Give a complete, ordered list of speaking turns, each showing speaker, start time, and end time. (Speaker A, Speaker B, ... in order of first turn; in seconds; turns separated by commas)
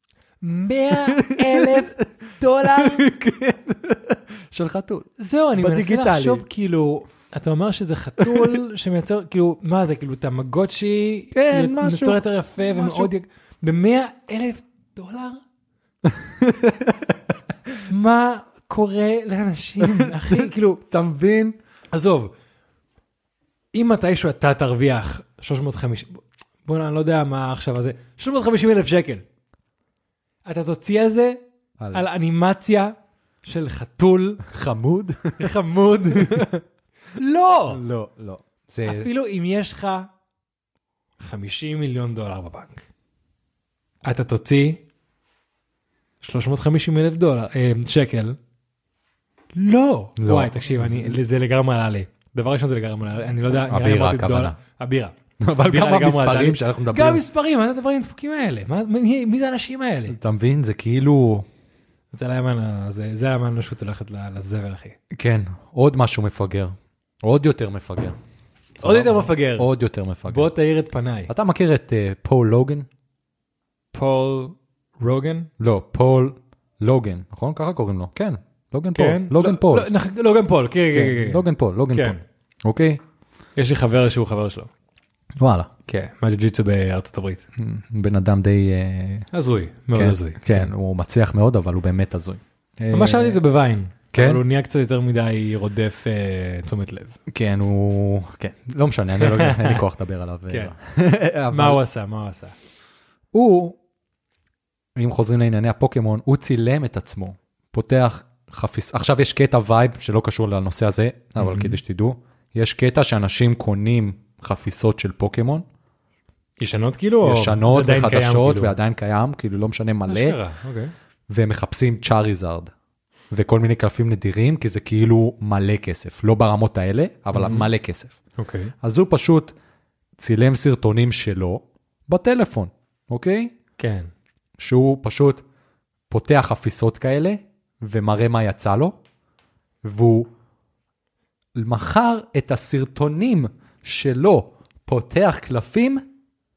Speaker A: 0.4-3.1, Speaker B: 1.1-2.1, Speaker B: 2.6-6.5, Speaker A: 5.2-15.4, Speaker B: 8.2-8.6, Speaker B: 11.3-13.1, Speaker B: 16.1-17.2, Speaker A: 17.9-20.8, Speaker B: 19.8-21.6, Speaker A: 21.9-22.3, Speaker A: 23.7-29.2, Speaker A: 30.4-31.4, Speaker B: 31.8-32.1, Speaker A: 31.9-34.4, Speaker B: 34.5-35.6, Speaker A: 35.4-36.5, Speaker B: 36.1-36.6, Speaker A: 37.1-37.8, Speaker B: 37.7-39.1, Speaker A: 38.9-40.1, Speaker A: 41.2-42.9, Speaker A: 44.0-44.8, Speaker A: 46.2-48.4, Speaker A: 49.5-60.2, Speaker B: 50.2-51.2, Speaker B: 53.7-54.6, Speaker B: 55.4-57.2, Speaker B: 60.1-61.5, Speaker A: 62.1-65.0, Speaker B: 65.1-68.2, Speaker A: 68.8-69.7, Speaker B: 68.8-70.5, Speaker A: 70.3-71.3, Speaker B: 71.3-72.9, Speaker A: 73.9-75.5, Speaker B: 75.6-79.9, Speaker A: 79.0-82.2, Speaker B: 80.9-83.0, Speaker A: 83.6-84.7, Speaker B: 85.4-85.7, Speaker A: 85.9-87.5, Speaker B: 87.6-89.3, Speaker A: 89.3-90.7, Speaker B: 89.9-93.4, Speaker A: 92.9-97.2, Speaker B: 94.1-94.4, Speaker B: 97.3-101.8, Speaker A: 99.2-99.8, Speaker A: 100.5-100.7, Speaker A: 101.5-102.5, Speaker B: 103.3-103.8, Speaker B: 105.0-115.7, Speaker A: 111.4-111.8, Speaker A: 116.6-118.8, Speaker B: 117.2-120.4, Speaker A: 120.1-120.9, Speaker B: 121.3-122.7, Speaker B: 123.3-128.2, Speaker A: 127.3-127.7, Speaker A: 128.4-128.7, Speaker B: 128.8-129.6, Speaker B: 130.2-133.5, Speaker A: 133.8-134.1, Speaker B: 134.6-135.4, Speaker B: 136.1-139.0, Speaker B: 139.8-140.3, Speaker B: 141.6-146.0